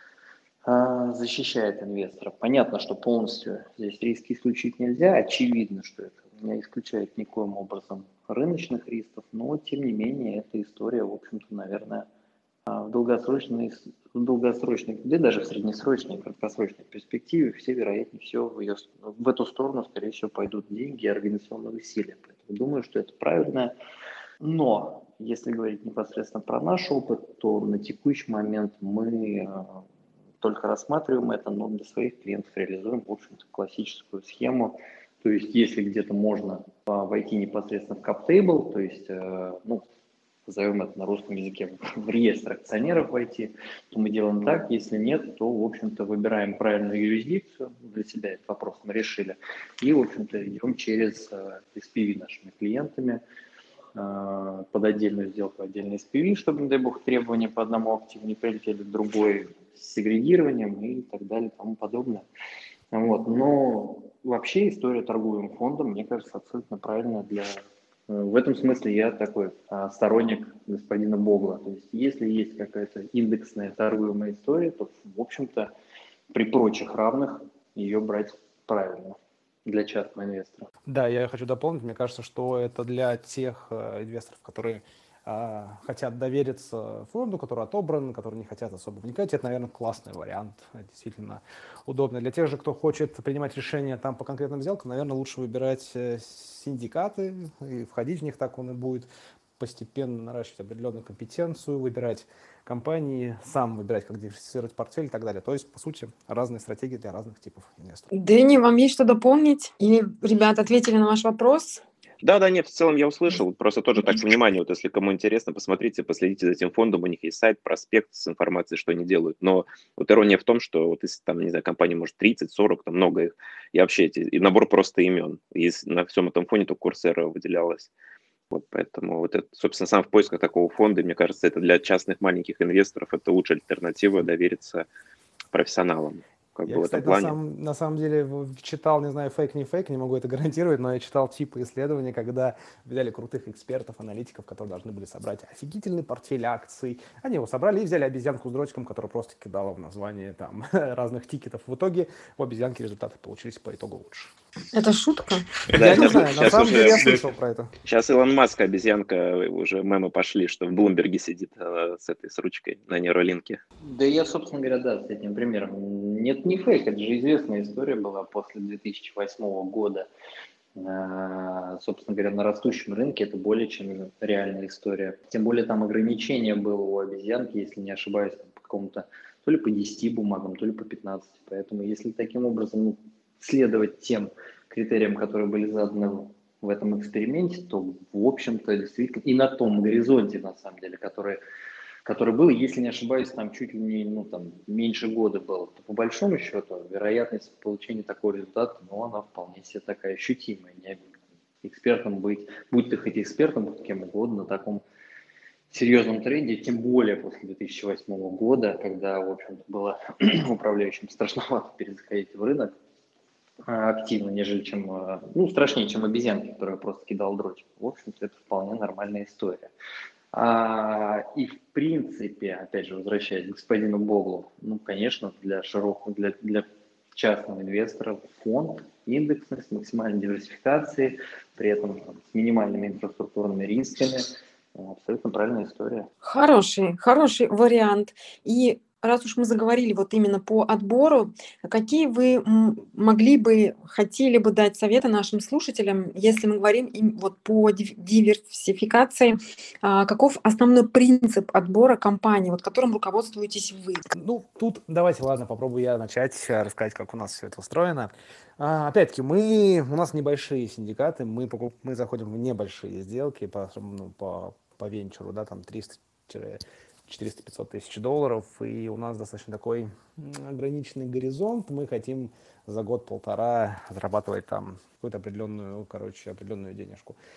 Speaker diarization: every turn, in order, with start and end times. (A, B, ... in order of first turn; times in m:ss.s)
0:00.6-0:12.1 A
0:12.7-0:23.7 A
0:24.4-0:29.8 A
0:30.4-0:39.8 A
0:40.5-0:53.2 A
0:53.9-1:02.2 A
1:02.9-1:15.7 A
1:16.3-1:20.7 A
1:20.8-1:39.1 B
1:39.6-1:48.1 B
1:48.1-1:51.8 C
1:52.2-2:07.9 D
2:08.5-2:14.8 D
2:15.5-2:17.4 D
2:16.7-2:34.3 B
2:34.7-2:35.4 C
2:35.7-2:37.2 D
2:35.7-2:37.7 B
2:37.8-2:43.6 D
2:43.8-2:50.1 A
2:50.8-3:11.4 A
3:12.0-3:21.0 A
3:21.6-3:24.8 A
3:25.7-3:32.7 A
3:33.6-3:39.7 A
3:40.3-3:56.1 A
3:56.2-4:14.0 C
4:14.1-4:37.2 B